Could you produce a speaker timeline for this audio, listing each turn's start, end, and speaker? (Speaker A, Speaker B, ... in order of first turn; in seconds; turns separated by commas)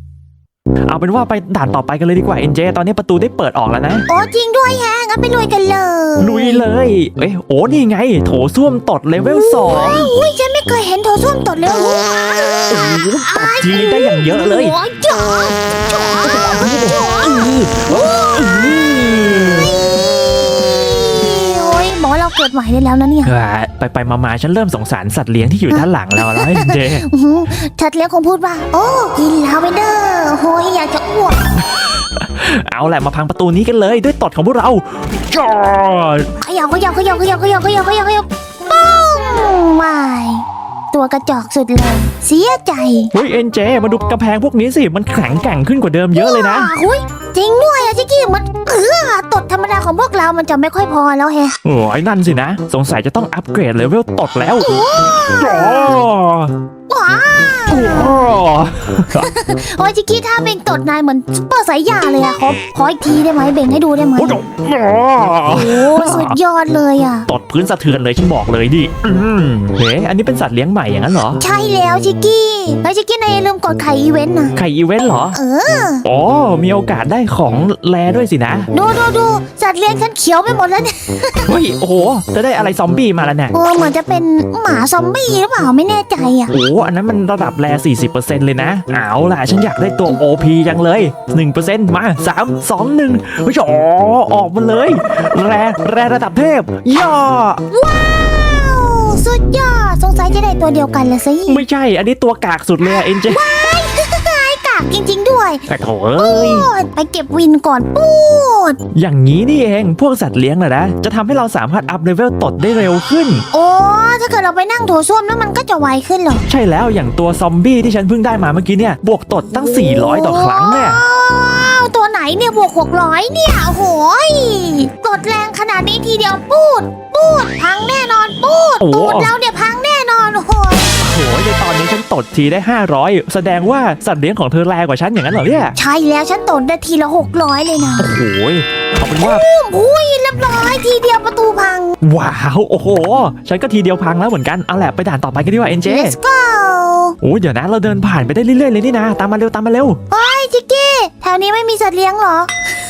Speaker A: 0.9-4.0, Speaker B: 4.1-6.6, Speaker A: 6.2-10.1, Speaker B: 9.2-23.3, Speaker A: 12.7-14.7, Speaker A: 16.2-19.7, Speaker A: 23.2-27.0, Speaker B: 25.7-31.5, Speaker A: 31.8-36.3, Speaker B: 36.4-43.1, Speaker A: 43.1-46.7, Speaker B: 46.1-51.5, Speaker A: 51.6-54.7, Speaker B: 54.6-56.0, Speaker A: 55.4-56.5, Speaker B: 56.9-58.3, Speaker A: 57.7-59.3, Speaker B: 59.1-64.4, Speaker A: 64.2-66.4, Speaker B: 65.4-67.3, Speaker A: 67.3-71.4, Speaker B: 71.4-74.5, Speaker A: 74.5-75.3, Speaker B: 75.3-76.0, Speaker A: 76.0-78.7, Speaker B: 78.7-81.5, Speaker A: 81.5-83.5, Speaker B: 83.5-86.5, Speaker A: 86.5-97.6, Speaker B: 97.7-101.6, Speaker A: 101.5-103.4, Speaker B: 102.8-105.6, Speaker A: 105.7-106.7, Speaker B: 106.2-108.8, Speaker A: 108.9-113.4, Speaker B: 113.5-116.4, Speaker A: 116.5-121.0, Speaker B: 119.5-130.9, Speaker A: 128.8-129.3, Speaker A: 131.0-135.7, Speaker B: 135.8-138.1, Speaker A: 138.0-139.4, Speaker B: 139.2-142.0, Speaker A: 142.0-146.2, Speaker B: 145.8-147.2, Speaker A: 147.2-150.0, Speaker B: 150.1-152.5